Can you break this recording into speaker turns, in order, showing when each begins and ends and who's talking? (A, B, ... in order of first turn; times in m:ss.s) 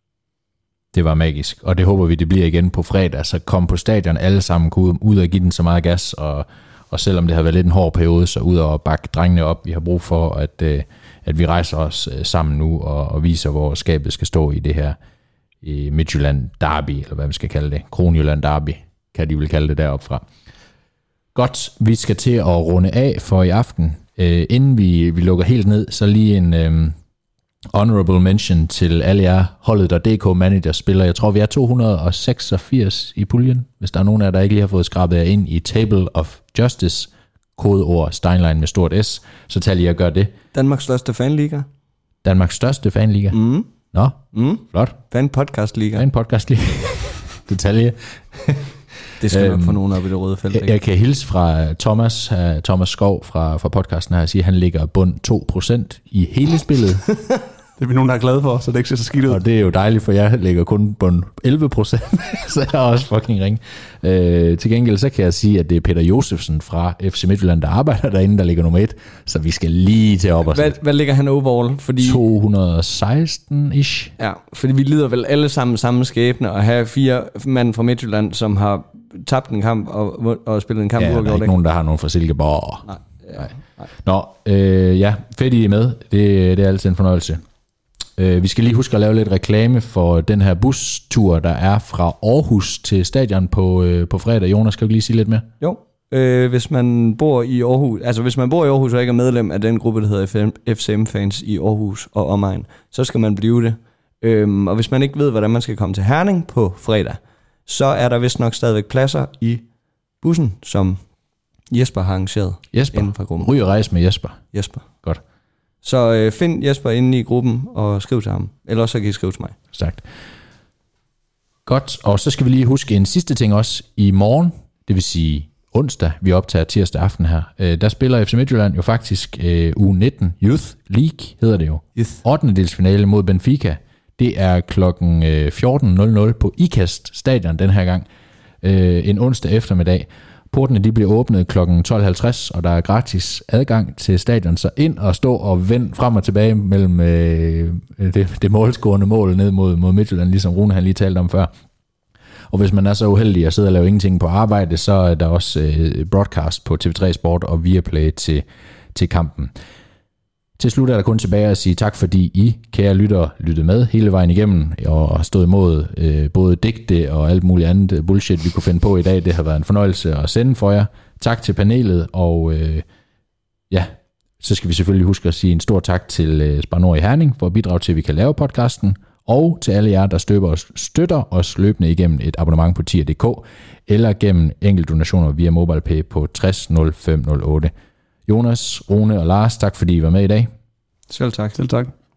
0:00.9-0:15.0 A
0:15.6-0:20.2 A
0:21.4-0:27.0 A
0:27.7-0:40.3 A
0:40.5-0:41.7 B
0:42.2-0:45.0 A
0:43.3-0:43.7 B
0:44.3-0:46.1 B
0:46.0-0:49.8 A
0:49.2-0:50.8 B
0:50.5-0:57.0 A
0:57.8-0:59.4 C
0:59.3-1:10.8 A
1:10.5-1:12.2 B
1:12.0-1:14.1 A
1:14.2-1:21.5 B
1:21.0-1:27.4 A
1:22.9-1:23.9 B
1:28.2-1:35.5 A
1:35.6-1:49.7 B
1:50.2-1:51.0 B
1:51.7-1:53.5 B
1:52.7-1:55.2 A
1:54.5-1:54.9 B
1:55.8-1:59.6 B
1:59.7-2:00.0 A
2:01.7-2:18.1 A
2:18.6-2:31.5 A
2:32.5-2:39.5 A
2:40.6-2:52.9 A
2:53.7-3:07.7 A
3:08.3-3:10.5 A
3:11.1-3:11.6 B
3:11.6-3:11.9 C